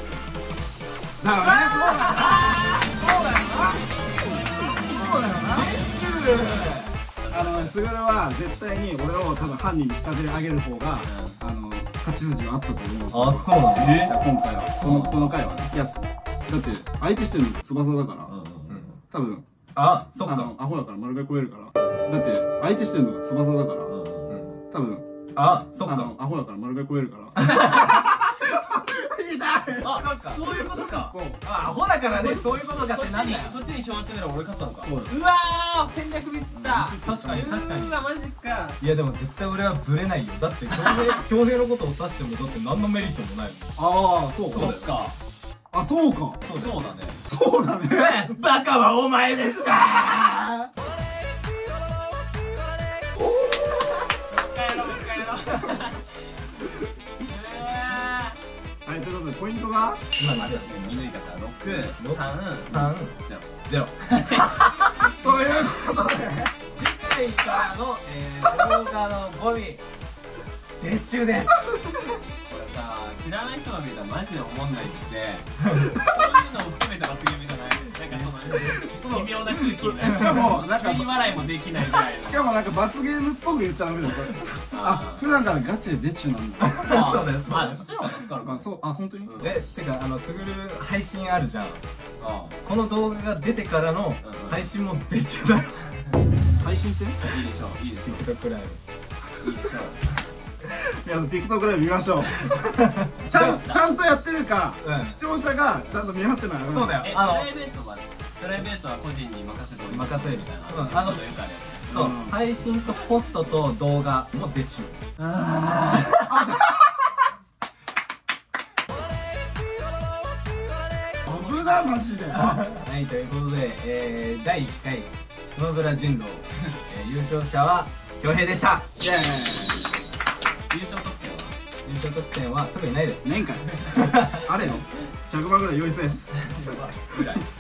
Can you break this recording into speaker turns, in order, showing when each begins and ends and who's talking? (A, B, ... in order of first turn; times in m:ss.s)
0:01.2-0:05.7 A
0:01.5-0:02.9 B
0:02.5-0:03.5 C
0:05.4-0:07.0 B
0:06.0-0:07.8 C
0:07.3-0:18.3 A
0:11.0-0:11.4 C
0:13.1-0:14.1 B
0:13.8-0:14.1 C
0:14.8-0:15.2 B
0:14.8-0:15.1 C
0:18.3-0:19.0 C
0:19.1-0:19.4 A
0:19.7-0:20.5 B
0:20.2-0:23.9 A
0:23.9-0:24.5 C
0:24.3-0:24.6 B
0:24.7-0:25.1 A
0:25.3-0:26.1 B
0:25.8-0:30.0 A
0:27.6-0:28.0 C
0:29.8-0:31.2 C
0:29.8-0:33.6 B
0:30.9-0:31.4 A
0:32.1-0:32.6 A
0:32.7-0:38.8 C
0:34.8-0:35.2 A
0:36.5-0:37.4 A
0:36.9-0:38.0 B
0:38.8-0:43.7 B
0:40.7-0:41.2 C
0:43.8-0:44.8 A
0:44.5-0:45.2 C
0:44.5-0:45.0 B
0:45.7-0:46.4 A
0:46.4-0:46.9 B
0:46.5-0:47.2 C
0:47.2-0:48.3 A
0:47.9-0:50.7 B
0:54.3-0:56.2 C
0:57.2-0:58.4 C
0:58.8-1:00.0 A
1:00.2-1:01.1 B
1:00.4-1:04.6 C
1:01.7-1:03.2 B
1:03.7-1:05.1 B
1:05.1-1:06.5 A
1:06.7-1:09.8 B
1:10.8-1:12.0 B
1:12.5-1:22.5 C
1:15.6-1:15.9 B
1:18.1-1:18.7 B
1:18.5-1:27.2 A
1:20.1-1:20.6 B
1:24.7-1:25.2 C
1:26.6-1:27.8 B
1:26.8-1:28.7 C
1:28.4-1:29.4 A
1:29.2-1:29.6 C
1:29.4-1:31.8 B
1:32.2-1:32.6 C
1:32.6-1:35.8 B
1:34.2-1:34.6 C
1:36.6-1:37.2 A
1:37.2-1:38.3 C
1:38.0-1:38.8 B
1:39.4-1:40.1 C
1:40.6-1:42.7 A
1:42.3-1:43.6 B
1:43.2-1:43.8 C
1:43.2-1:47.1 A
1:44.8-1:45.2 B
1:46.7-1:47.5 B
1:47.0-1:52.0 C
1:49.9-1:51.2 B
1:51.9-1:55.0 B
1:51.9-1:52.4 A
1:55.2-1:56.3 C
1:56.1-1:56.5 B
1:56.3-1:57.1 A
2:01.2-2:02.7 A
2:02.3-2:08.9 B
2:09.0-2:10.0 A
2:10.7-2:11.6 C
2:11.8-2:14.5 B
2:13.2-2:13.7 A
2:14.3-2:17.4 A
2:16.4-2:17.5 C